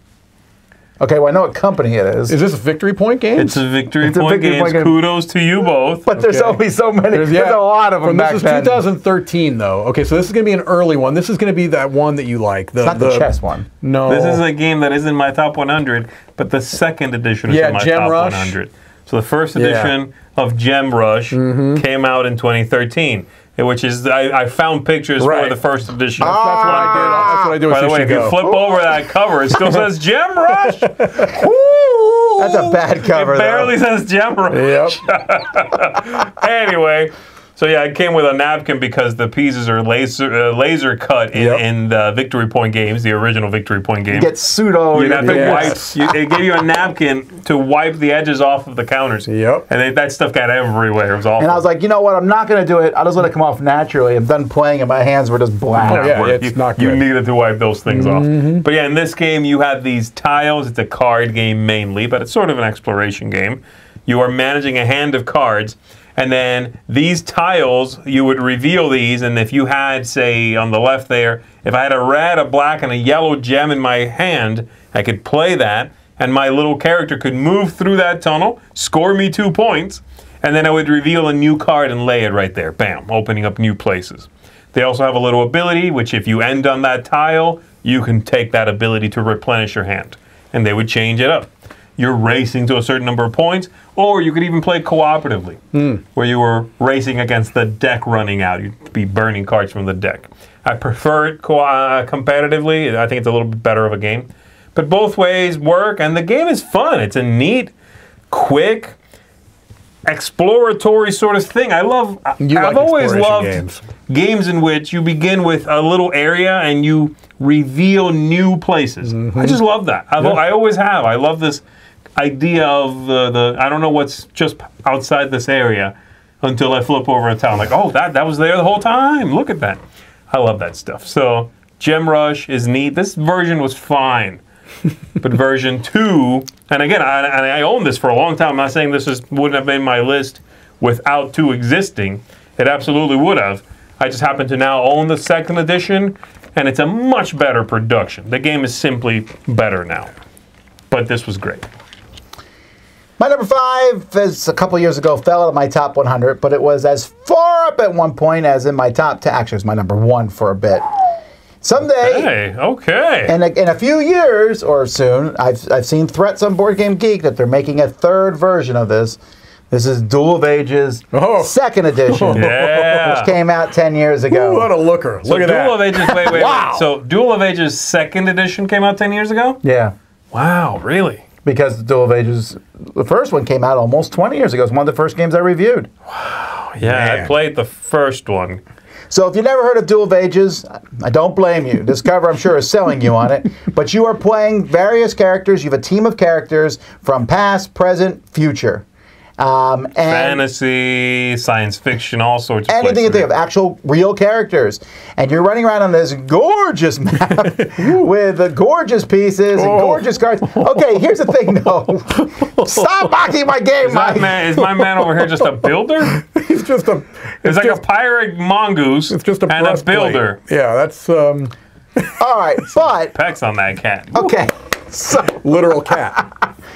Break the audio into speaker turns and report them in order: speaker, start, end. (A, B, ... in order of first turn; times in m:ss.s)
0:01.0-0:02.4 A
0:02.3-0:03.6 B
0:03.4-0:06.1 C
0:04.0-0:05.0 A
0:06.0-0:08.8 A
0:06.2-0:06.6 B
0:07.1-0:13.3 B
0:12.8-0:13.7 A
0:13.8-0:14.4 B
0:14.1-0:44.3 C
0:17.5-0:18.6 B
0:19.5-0:19.9 B
0:21.3-0:21.8 B
0:25.2-0:25.6 B
0:26.2-0:28.5 B
0:26.2-0:27.5 A
0:30.6-0:31.3 B
0:32.4-0:33.7 A
0:34.5-0:35.0 B
0:41.3-0:41.6 B
0:44.1-0:45.8 A
0:44.9-0:51.6 C
0:45.2-0:46.0 B
0:49.3-0:49.6 B
0:51.4-0:56.4 A
0:55.8-1:35.6 C
0:55.8-0:57.0 B
0:57.9-0:58.6 B
1:35.7-1:36.0 B
1:36.1-1:47.7 C
1:48.3-1:48.9 C
1:50.0-2:01.6 C
1:52.4-1:53.8 B
1:59.0-1:59.6 B
2:02.2-2:09.8 C
2:10.3-2:14.4 C
2:15.2-2:30.1 C
2:30.9-2:31.6 C
2:33.2-2:40.8 A
2:41.6-2:42.3 A
2:42.0-2:43.3 C
2:43.3-2:49.2 A
2:49.7-2:54.7 A
2:51.1-2:51.5 B
2:52.1-2:53.1 B
2:52.3-2:53.3 C
2:54.3-2:56.9 B
2:55.2-2:59.6 C
2:59.6-2:59.9 A
3:00.3-3:01.2 C
3:01.4-3:05.9 A
3:06.1-3:08.6 C
3:06.8-3:07.3 B
3:09.1-3:18.8 A
3:19.4-3:20.4 A
3:20.1-3:23.3 C
3:22.7-3:34.3 A
3:27.7-3:28.1 B
3:29.6-3:31.7 B
3:32.4-3:32.8 B
3:33.8-3:36.2 C
3:34.6-3:35.5 B
3:36.1-3:37.8 B
3:37.4-3:40.4 C
3:39.1-3:42.1 B
3:42.2-3:43.1 A
3:43.1-3:44.1 C
3:44.1-3:46.2 A
3:45.3-3:46.2 B